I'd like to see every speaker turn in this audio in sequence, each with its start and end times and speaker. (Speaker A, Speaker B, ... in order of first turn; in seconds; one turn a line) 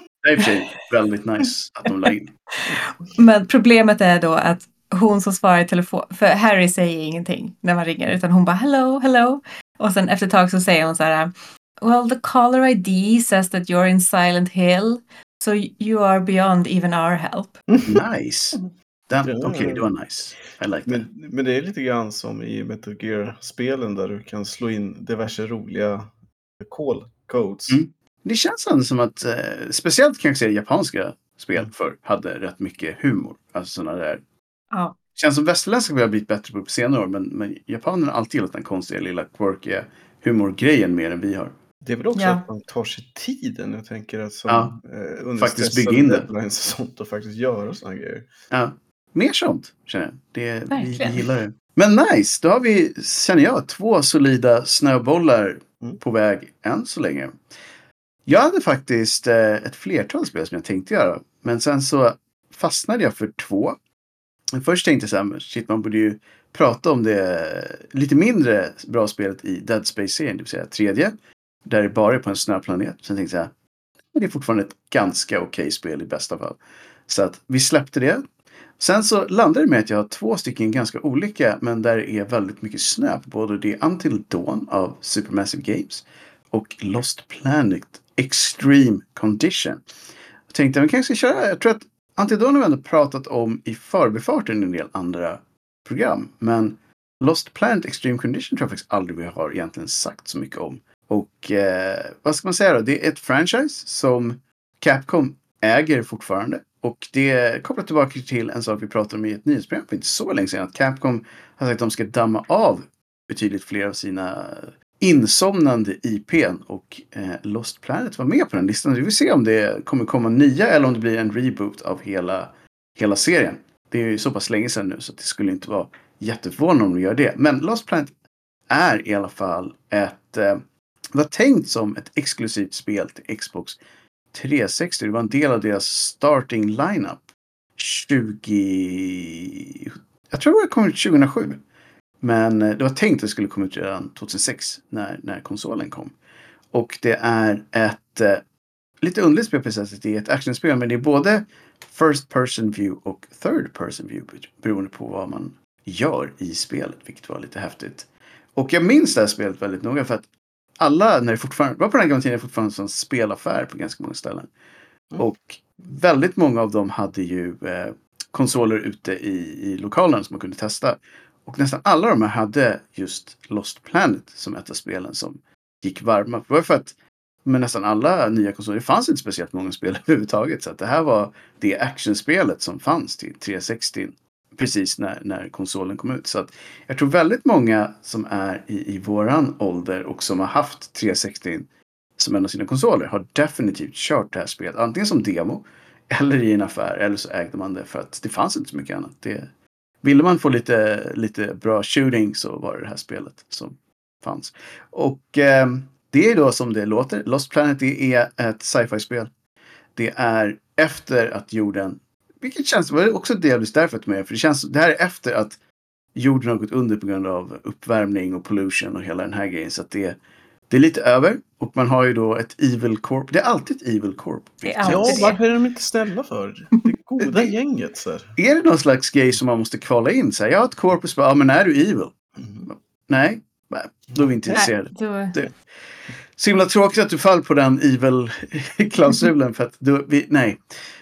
Speaker A: 0.2-2.3
Speaker B: 2.0-17.6
Speaker C: 17.7-18.0
Speaker A: 17.9-21.0
Speaker C: 19.2-19.9
Speaker C: 20.9-26.1
Speaker C: 26.6-27.8
Speaker A: 27.7-34.2
Speaker A: 35.2-41.5
Speaker C: 41.8-48.3
Speaker B: 42.1-42.4
Speaker A: 44.5-44.8
Speaker A: 45.4-46.3
Speaker A: 48.5-57.4
Speaker B: 50.7-51.3
Speaker A: 58.3-63.8
Speaker A: 64.5-73.5
Speaker A: 74.1-78.2
Speaker A: 78.8-89.8
Speaker A: 90.5-128.1
Speaker A: 128.7-133.8
Speaker A: 134.3-137.2
Speaker A: 137.8-141.6
Speaker A: 142.2-146.2
Speaker A: 146.7-148.4
Speaker A: 149.0-160.3
Speaker A: 160.8-164.5
Speaker A: 165.2-199.5
Speaker A: 200.0-209.3
Speaker A: 210.0-215.6
Speaker A: 216.2-225.3
Speaker B: 224.7-225.4
Speaker C: 224.8-228.3
Speaker A: 227.2-227.5
Speaker A: 228.4-232.1
Speaker C: 232.4-232.7
Speaker A: 232.7-235.5
Speaker C: 234.2-234.7
Speaker B: 234.5-235.4
Speaker A: 236.4-240.6